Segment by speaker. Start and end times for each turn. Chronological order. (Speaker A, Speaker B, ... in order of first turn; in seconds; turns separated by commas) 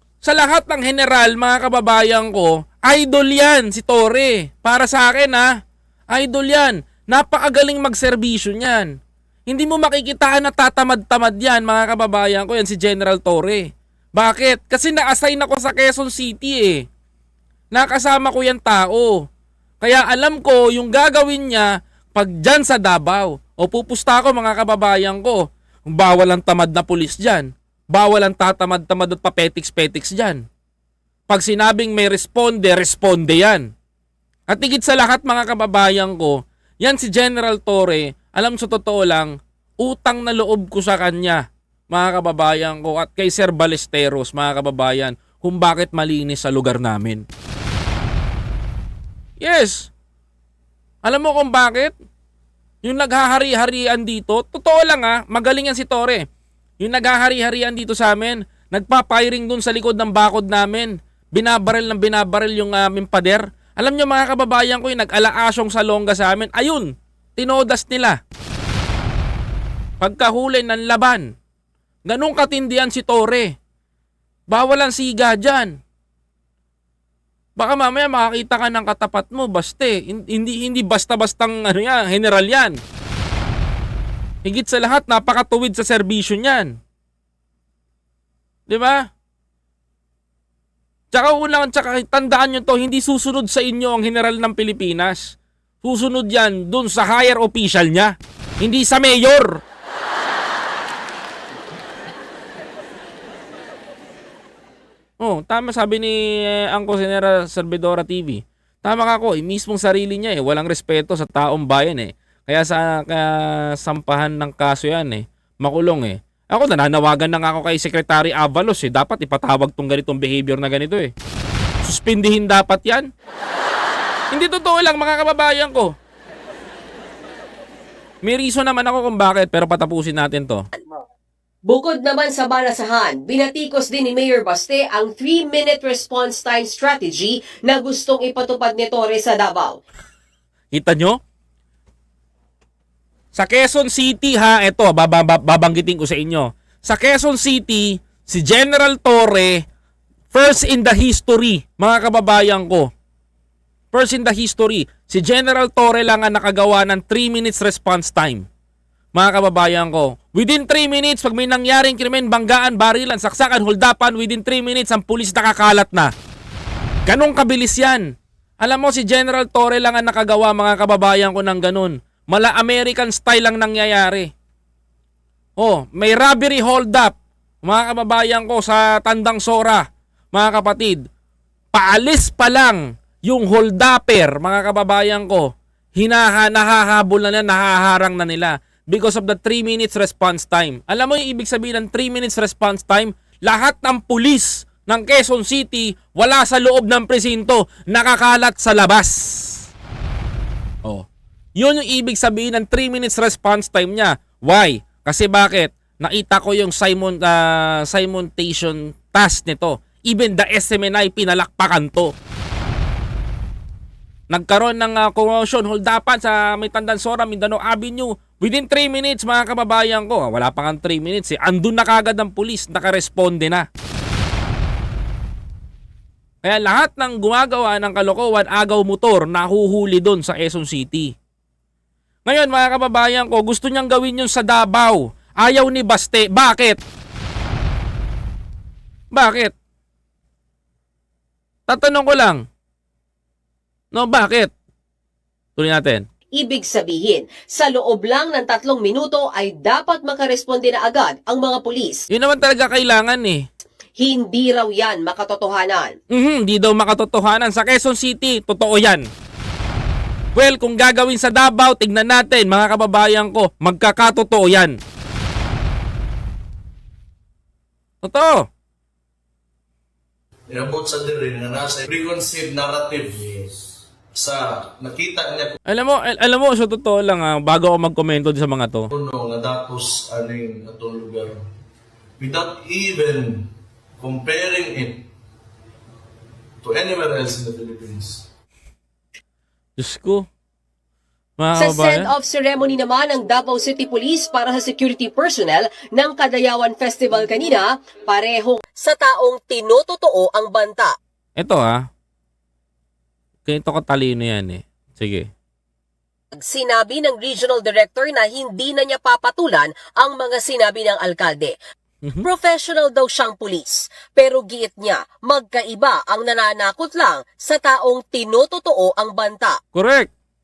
Speaker A: 0.2-5.5, Speaker A: 6.1-8.9, Speaker A: 9.5-16.8, Speaker A: 17.7-19.2, Speaker A: 19.8-30.4, Speaker A: 31.3-33.6, Speaker A: 34.5-47.2, Speaker A: 49.4-49.9, Speaker A: 51.0-51.9, Speaker A: 52.8-56.2, Speaker A: 56.8-68.2, Speaker A: 70.0-71.3, Speaker A: 72.0-73.5, Speaker A: 74.5-75.7, Speaker A: 77.6-82.8, Speaker A: 84.4-86.7, Speaker A: 88.7-89.0, Speaker A: 91.1-99.6, Speaker A: 105.2-121.1, Speaker A: 121.8-123.1, Speaker A: 124.3-125.9, Speaker A: 128.2-130.6, Speaker B: 131.7-139.8, Speaker A: 140.7-141.2, Speaker A: 143.3-149.6, Speaker A: 150.3-152.9, Speaker A: 153.9-158.4, Speaker A: 159.1-166.1, Speaker A: 167.1-168.1, Speaker A: 168.6-174.3, Speaker A: 175.6-177.1, Speaker A: 177.6-181.0, Speaker A: 181.7-199.6, Speaker A: 201.6-212.1, Speaker A: 214.3-223.6, Speaker A: 226.4-231.1, Speaker A: 232.3-236.8, Speaker A: 239.1-239.5, Speaker A: 241.7-242.4, Speaker A: 243.9-244.5, Speaker A: 245.6-246.0, Speaker B: 246.4-252.0, Speaker A: 252.1-253.4, Speaker B: 254.0-255.9, Speaker A: 256.1-259.1, Speaker A: 260.4-264.8, Speaker A: 268.0-268.4, Speaker C: 270.5-275.5, Speaker A: 275.7-278.9, Speaker C: 278.9-281.4, Speaker C: 282.2-283.5, Speaker C: 284.0-285.0, Speaker C: 286.6-288.2, Speaker A: 289.8-290.2, Speaker A: 291.4-292.1, Speaker B: 291.6-300.9, Speaker A: 301.4-301.8, Speaker A: 303.4-305.3, Speaker B: 306.4-311.6, Speaker B: 312.2-319.6, Speaker A: 319.7-320.1